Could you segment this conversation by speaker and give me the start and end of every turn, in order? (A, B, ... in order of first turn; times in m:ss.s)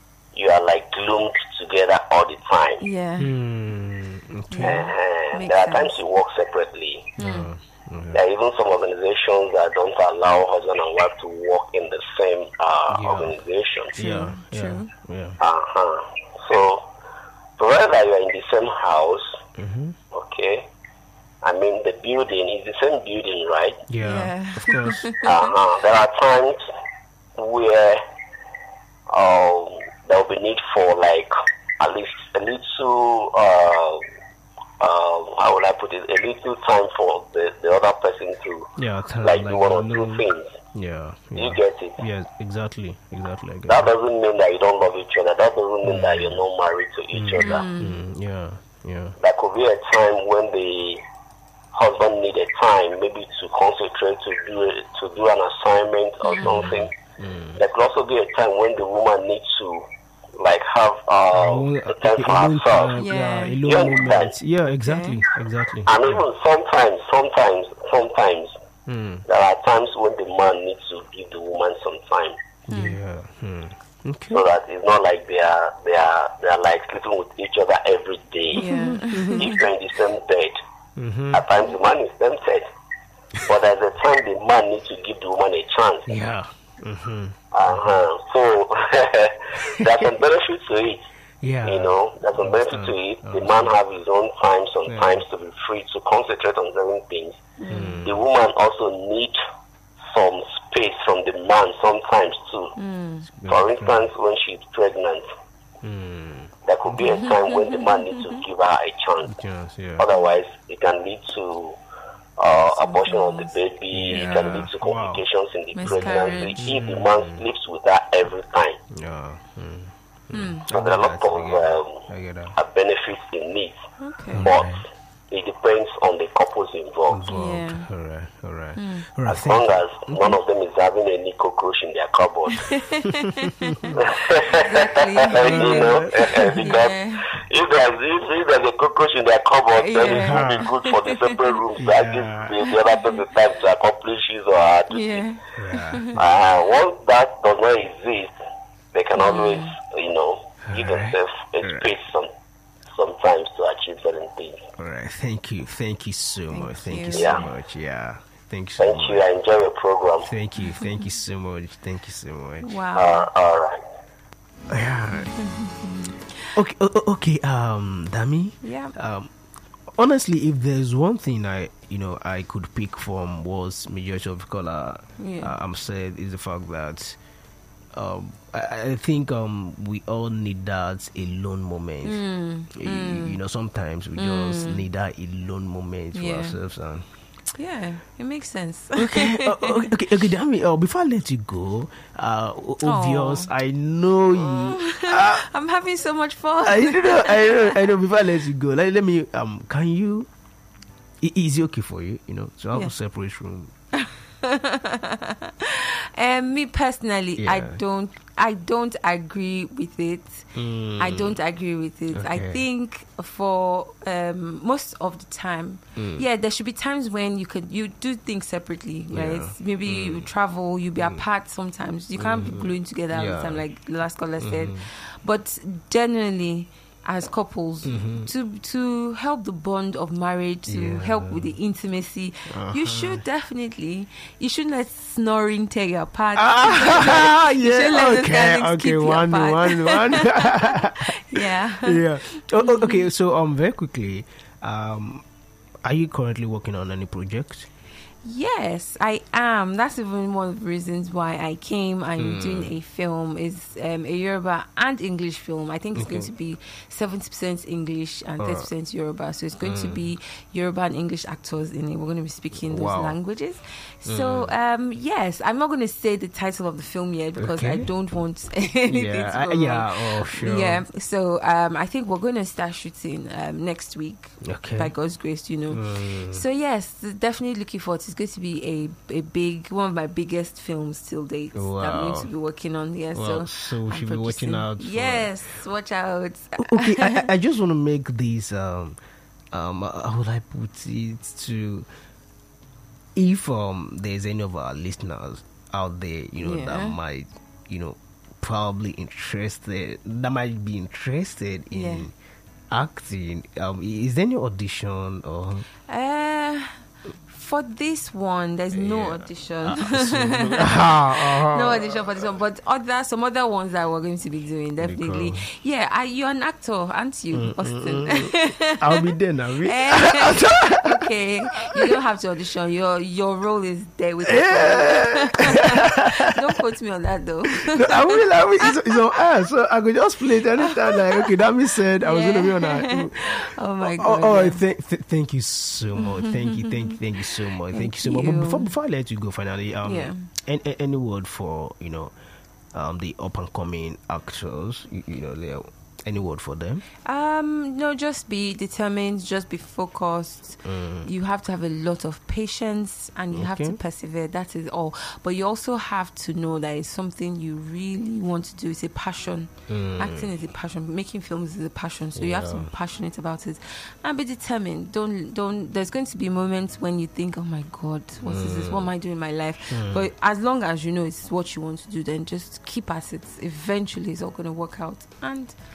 0:00.3-0:02.8 A
0:02.8-0:03.3 B
0:03.2-0:04.9 C
0:04.5-0:06.0 B
0:04.6-0:07.1 A
0:07.2-0:07.5 B
0:07.2-0:08.2 C
0:08.1-0:14.0 A
0:12.9-0:13.4 C
0:14.0-0:15.4 C
0:14.0-0:14.9 B
0:15.4-0:16.9 A
0:17.6-0:19.4 A
0:19.6-0:20.0 C
0:20.1-0:20.7 A
0:21.4-0:23.8 A
0:23.9-0:25.1 C
0:24.0-0:25.5 B
0:25.2-0:26.6 A
0:27.4-0:28.0 A
0:29.1-0:34.0 A
0:34.8-0:38.7 A
0:38.8-0:43.9 C
0:39.2-0:40.5 A
0:41.4-0:42.0 A
0:43.7-0:47.7 A
0:45.8-0:46.4 C
0:47.1-0:49.2 C
0:47.4-0:48.0 B
0:49.2-0:51.0 A
0:51.7-0:56.9 A
0:56.2-0:56.8 B
0:57.2-0:57.6 C
0:57.6-1:03.0 A
1:01.3-1:06.2 C
1:03.0-1:04.0 B
1:03.6-1:04.4 A
1:04.8-1:05.2 B
1:05.9-1:08.5 A
1:08.9-1:09.2 C
1:09.3-1:12.4 A
1:12.7-1:14.4 C
1:12.7-1:13.0 B
1:14.3-1:18.7 A
1:18.5-1:19.6 B
1:18.6-1:19.5 C
1:19.3-1:20.6 A
1:21.0-1:21.5 C
1:21.3-1:22.7 A
1:23.4-1:26.1 A
1:26.1-1:28.0 C
1:27.5-1:31.0 A
1:29.6-1:30.0 C
1:31.4-1:33.7 C
1:31.6-1:37.4 A
1:34.9-1:35.2 C
1:37.6-1:38.0 B
1:37.7-1:38.2 C
1:38.0-1:39.4 A
1:40.1-1:42.7 A
1:42.8-1:43.3 B
1:43.3-1:44.1 C
1:43.5-1:45.3 A
1:45.8-1:46.5 C
1:46.6-1:49.4 A
1:47.1-1:48.4 B
1:49.3-1:50.1 C
1:50.0-1:51.8 A
1:52.4-1:58.8 A
1:52.7-1:54.7 B
1:53.9-1:55.2 C
1:55.8-1:56.7 B
1:55.8-1:57.4 C
1:58.9-2:02.6 C
2:00.3-2:00.7 B
2:00.7-2:02.0 A
2:02.6-2:03.8 A
2:04.0-2:04.5 B
2:04.3-2:04.8 C
2:04.4-2:07.2 A
2:07.1-2:10.4 C
2:07.3-2:07.9 B
2:08.8-2:09.1 B
2:09.3-2:12.7 A
2:12.5-2:17.3 B
2:13.1-2:14.0 C
2:14.0-2:25.2 A
2:15.3-2:16.6 C
2:19.7-2:21.5 B
2:20.1-2:20.7 C
2:21.8-2:22.6 C
2:24.9-2:26.2 B
2:25.6-2:26.2 C
2:26.1-2:28.3 A
2:28.9-2:32.3 A
2:29.2-2:29.8 B
2:30.6-2:31.9 C
2:32.9-2:34.6 A
2:34.8-2:39.2 C
2:36.5-2:37.5 B
2:37.1-2:37.4 A
2:38.8-2:40.3 A
2:40.2-2:42.7 C
2:42.6-2:43.3 B
2:43.0-2:43.8 A
2:44.7-2:45.4 C
2:45.3-2:46.3 B
2:46.5-2:49.3 C
2:48.6-2:48.9 B
2:49.9-2:57.2 C
2:55.2-2:55.5 B
2:57.9-3:07.1 C
3:02.0-3:03.4 B
3:04.2-3:04.8 B
3:06.1-3:06.6 B
3:07.6-3:09.9 B
3:09.0-3:15.4 C
3:12.8-3:13.5 B
3:14.4-3:17.9 B
3:16.6-3:20.3 C
3:21.2-3:23.7 C
3:23.9-4:03.1 B
3:27.4-3:27.8 C
3:30.6-3:31.4 C
3:32.1-3:32.6 C
3:36.0-3:36.2 C
3:39.1-3:40.3 C
3:42.2-3:43.6 C
3:44.4-3:44.9 C
3:47.8-3:48.3 C
3:50.7-3:51.5 C
3:52.5-3:53.2 C
3:56.4-4:05.2 C
4:05.8-4:07.7 C
4:08.2-4:47.3 B
4:12.2-4:12.7 C
4:16.0-4:16.3 C
4:18.4-4:18.7 C
4:19.6-4:20.1 C
4:22.6-4:23.2 C
4:24.1-4:24.5 C
4:27.4-4:27.9 C
4:28.9-4:30.8 C
4:34.4-4:34.9 C
4:35.7-4:36.4 C
4:41.6-4:42.3 C
4:43.1-4:45.3 C
4:46.6-4:49.0 C
4:49.5-4:51.9 C
4:53.2-5:02.1 C
4:56.4-4:57.0 B
5:01.7-5:02.1 B
5:02.7-5:05.7 C
5:05.9-5:19.1 B
5:08.7-5:12.2 C
5:14.8-5:15.5 C
5:17.3-5:21.1 C
5:19.6-5:28.7 B
5:24.2-5:26.6 C
5:27.5-5:42.1 C
5:30.6-5:31.4 B
5:32.0-5:34.6 B
5:36.0-5:37.0 B
5:37.7-5:38.7 B
5:39.8-5:40.2 B
5:42.7-5:46.8 C
5:47.0-6:15.6 B
5:50.6-5:51.1 C
5:53.3-5:53.8 C
5:59.7-6:00.3 C
6:02.2-6:02.7 C
6:08.2-6:08.9 C
6:09.7-6:10.1 C